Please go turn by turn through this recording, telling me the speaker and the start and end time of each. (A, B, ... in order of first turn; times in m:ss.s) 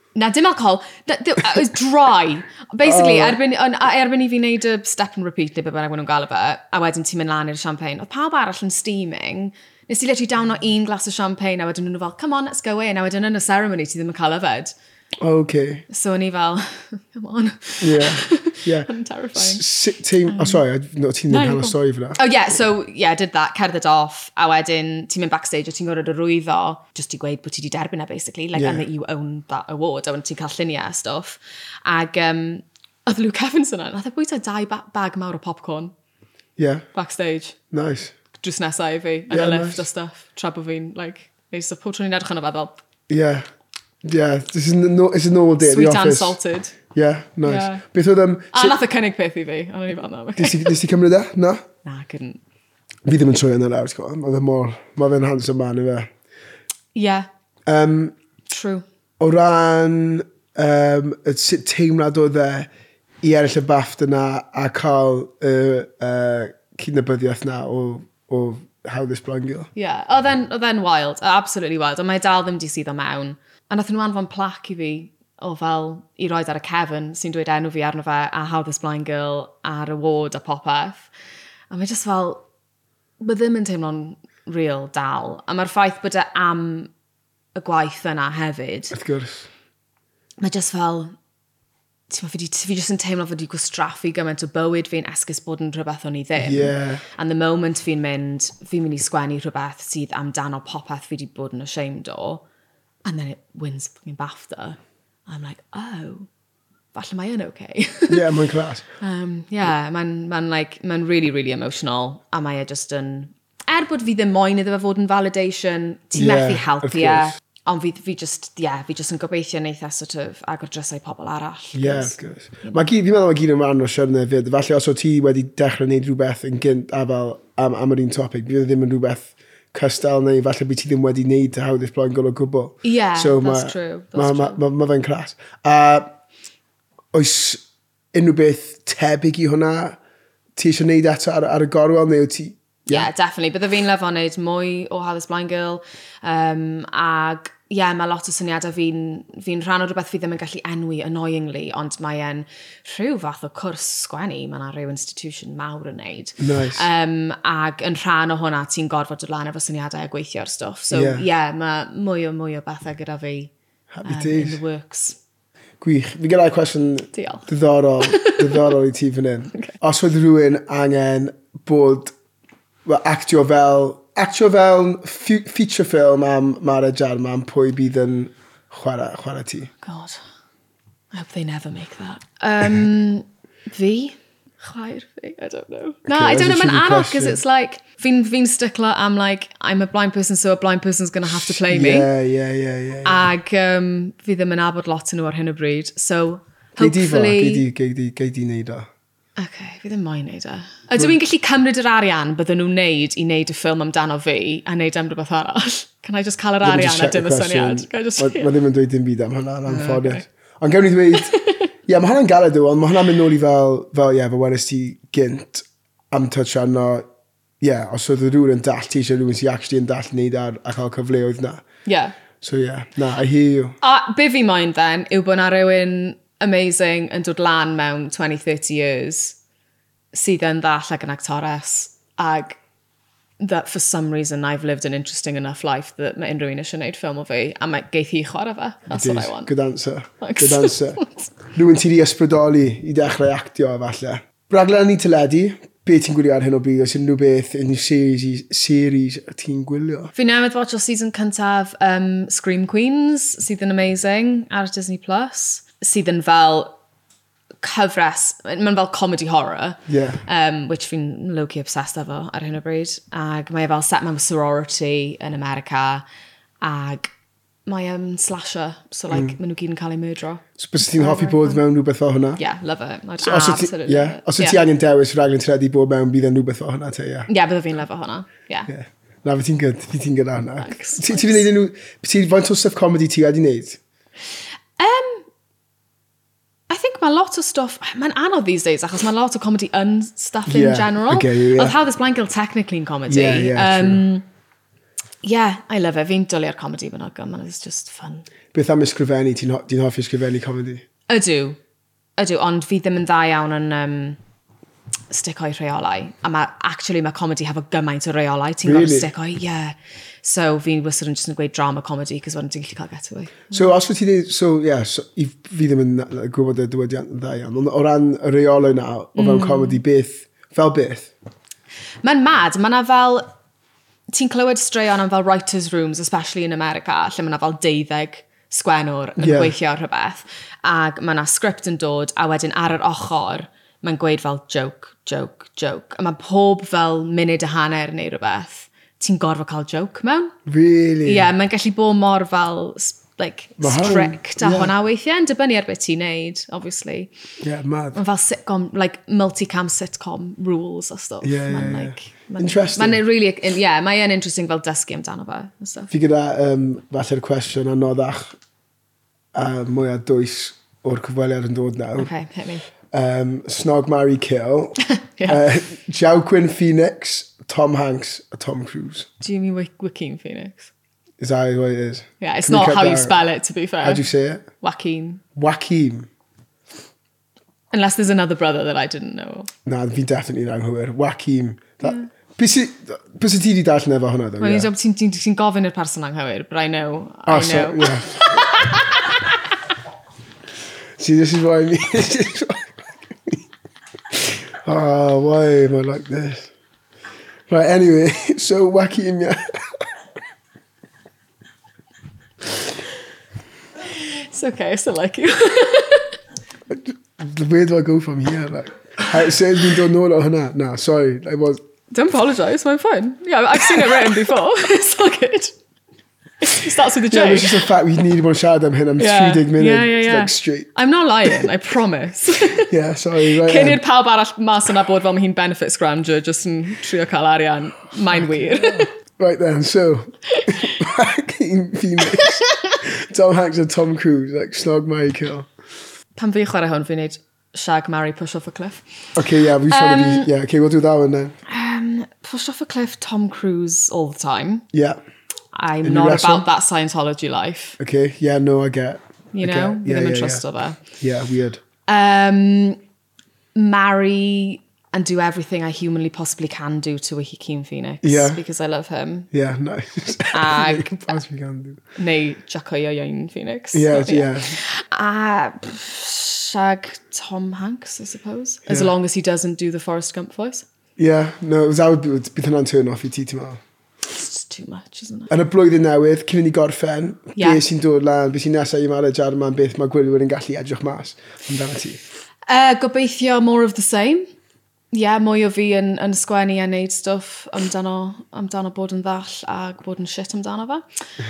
0:00.1-0:14.7 A
0:02.8-0:03.4 B
0:15.2-0:15.8 B
0:15.9-0:19.6 A
0:17.8-0:22.2 B
0:20.3-0:20.6 A
0:21.3-0:35.9 A
0:28.5-0:28.8 B
0:36.6-0:36.8 B
0:36.9-0:37.6 A
0:37.7-0:38.1 B
0:38.4-0:42.8 A
0:39.3-0:39.8 B
0:43.1-0:43.4 B
0:44.0-0:46.4 B
0:45.6-0:46.8 A
0:46.9-0:48.8 B
0:47.4-0:47.8 A
0:48.5-0:50.8 A
0:50.4-0:51.6 B
0:51.8-0:52.4 A
0:53.0-0:56.1 B
0:56.9-0:57.3 A
0:57.7-0:58.2 B
0:58.4-0:58.8 A
0:59.2-1:02.7 B
1:03.2-1:09.7 B
1:09.8-1:21.1 A
1:21.7-1:22.4 A
1:23.2-1:26.9 A
1:27.5-1:28.9 A
1:28.9-1:29.5 B
1:30.4-1:31.1 A
1:32.1-1:42.4 A
1:36.4-1:37.0 B
1:43.0-1:46.3 A
1:46.9-1:48.3 A
1:48.1-1:48.9 B
1:49.0-2:02.9 A
1:56.2-1:57.3 B
2:01.7-2:16.1 B
2:12.8-2:14.6 A
2:17.1-2:20.0 B
2:20.6-2:23.1 B
2:22.9-2:43.5 A
2:36.4-2:36.9 B
2:40.9-2:41.2 B
2:43.9-2:44.6 B
2:44.0-2:45.2 A
2:45.8-2:52.1 B
2:47.1-2:47.4 A
2:48.0-2:48.8 A
2:52.9-2:59.7 B
2:59.8-3:00.2 A
3:01.1-3:12.1 A
3:06.1-3:07.4 B
3:11.2-3:13.3 B
3:13.0-3:17.6 A
3:16.8-3:18.9 B
3:19.4-3:28.5 A
3:26.6-3:31.3 B
3:29.7-3:30.2 A
3:31.1-3:31.6 A
3:31.9-3:37.0 B
3:37.6-3:41.6 B
3:41.9-3:42.2 A
3:42.4-3:43.8 B
3:43.8-3:49.4 A
3:50.1-3:52.6 A
3:53.4-3:59.5 A
3:58.9-4:01.0 B
4:00.2-4:01.3 A
4:01.5-4:10.1 B
4:10.1-4:16.8 A
4:17.6-4:26.0 A
4:19.9-4:20.2 B
4:26.6-4:27.1 A
4:27.6-4:31.6 A
4:30.6-4:32.4 B
4:32.4-4:34.6 A
4:33.2-4:37.3 B
4:37.3-4:38.7 A
4:38.7-4:43.8 B
4:40.6-4:41.4 A
4:44.8-4:45.3 A
4:46.7-4:54.3 A
4:50.5-4:51.8 B
4:53.1-4:54.0 B
4:55.2-4:58.3 A
4:58.5-5:00.8 B
5:01.1-5:01.6 A
5:02.2-5:04.2 A
5:05.1-5:13.7 A
5:08.6-5:09.1 B
5:13.5-5:21.1 B
5:19.1-5:19.8 A
5:22.0-5:23.3 A
5:24.1-5:40.3 A
5:29.2-5:29.5 B
5:40.4-5:41.3 B
5:41.0-5:47.1 A
5:43.6-5:44.7 B
5:47.4-5:48.0 B
5:47.9-5:55.9 A
5:51.2-5:53.0 B
5:55.9-5:58.4 B
5:59.3-6:02.1 B
6:02.0-6:02.6 A
6:02.9-6:09.1 B
6:04.8-6:05.4 A
6:09.2-6:10.7 A
6:11.2-6:13.2 B
6:12.2-6:14.0 A
6:13.8-6:14.4 B
6:14.6-6:15.2 A
6:15.3-6:16.1 B
6:17.7-6:19.5 A
6:19.6-6:24.7 B
6:24.4-6:29.6 A
6:27.3-6:28.4 B
6:31.0-6:33.4 B
6:34.1-6:36.5 B
6:37.5-6:39.6 B
6:43.8-6:46.2 A
6:46.7-6:51.6 B
6:51.9-6:55.6 A
6:56.4-6:57.7 A
6:57.1-7:00.7 B
6:59.0-7:08.9 A
7:02.5-7:03.8 B
7:08.2-7:15.5 B
7:10.3-7:10.7 A
7:12.0-7:12.7 A
7:16.2-7:18.8 A
7:19.2-7:21.4 B
7:19.7-7:20.3 A
7:21.5-7:24.6 A
7:24.7-7:25.0 B
7:25.5-7:27.8 A
7:25.8-7:26.4 B
7:27.8-7:31.6 B
7:29.3-7:30.8 A
7:31.9-7:32.8 A
7:33.6-7:39.3 A
7:38.0-7:38.4 B
7:39.3-7:41.8 B
7:40.3-7:41.2 A
7:42.0-7:50.6 A
7:43.7-7:44.6 B
7:48.7-7:48.9 B
7:51.0-7:53.6 B
7:54.1-7:55.3 A
7:55.3-8:02.0 B
7:57.4-7:57.6 A
8:02.5-8:04.3 A
8:04.9-8:10.8 A